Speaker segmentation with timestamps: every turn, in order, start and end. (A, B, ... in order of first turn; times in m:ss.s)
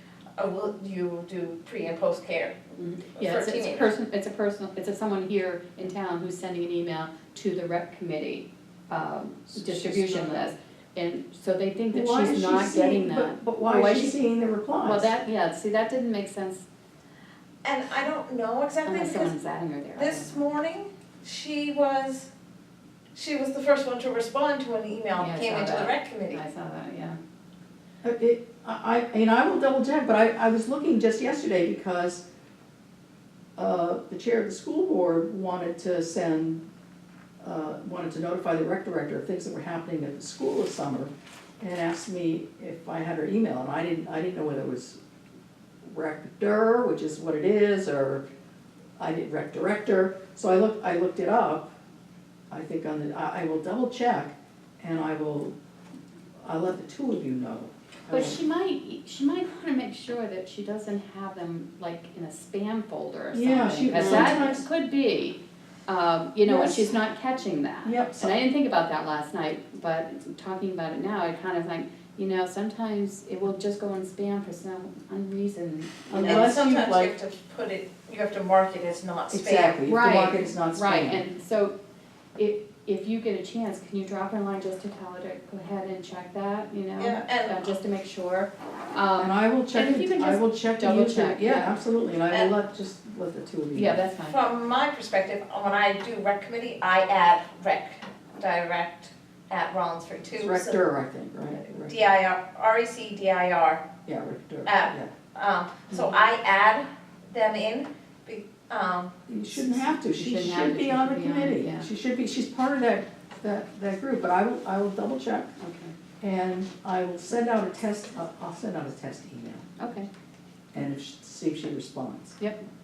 0:00.4-0:03.9 A
0:02.8-0:14.2 B
0:09.5-0:10.6 C
0:11.9-0:15.1 C
0:14.8-0:16.7 B
0:17.6-0:19.3 A
0:18.8-0:20.5 B
0:20.0-0:22.3 A
0:23.2-0:26.4 A
0:25.1-0:27.2 B
0:28.0-0:32.3 C
0:33.6-0:36.7 C
0:37.4-0:45.0 C
0:45.8-0:48.2 C
0:49.0-0:51.7 C
0:52.5-0:55.6 C
0:56.4-0:58.4 C
0:58.1-1:16.7 B
1:03.3-1:04.7 C
1:06.4-1:06.9 C
1:07.8-1:08.4 C
1:16.1-1:17.2 C
1:16.2-1:19.8 A
1:19.3-1:21.2 C
1:19.8-1:21.8 B
1:22.4-1:31.8 B
1:27.0-1:27.6 A
1:29.2-1:34.0 C
1:33.7-1:34.4 B
1:34.2-1:40.8 A
1:40.4-1:42.0 C
1:41.7-1:43.9 A
1:44.1-1:45.1 C
1:44.7-1:49.2 A
1:49.3-1:55.5 C
1:49.7-1:51.9 B
1:55.6-1:56.0 B
1:56.2-1:59.6 C
1:59.8-2:00.1 B
2:00.7-2:02.4 C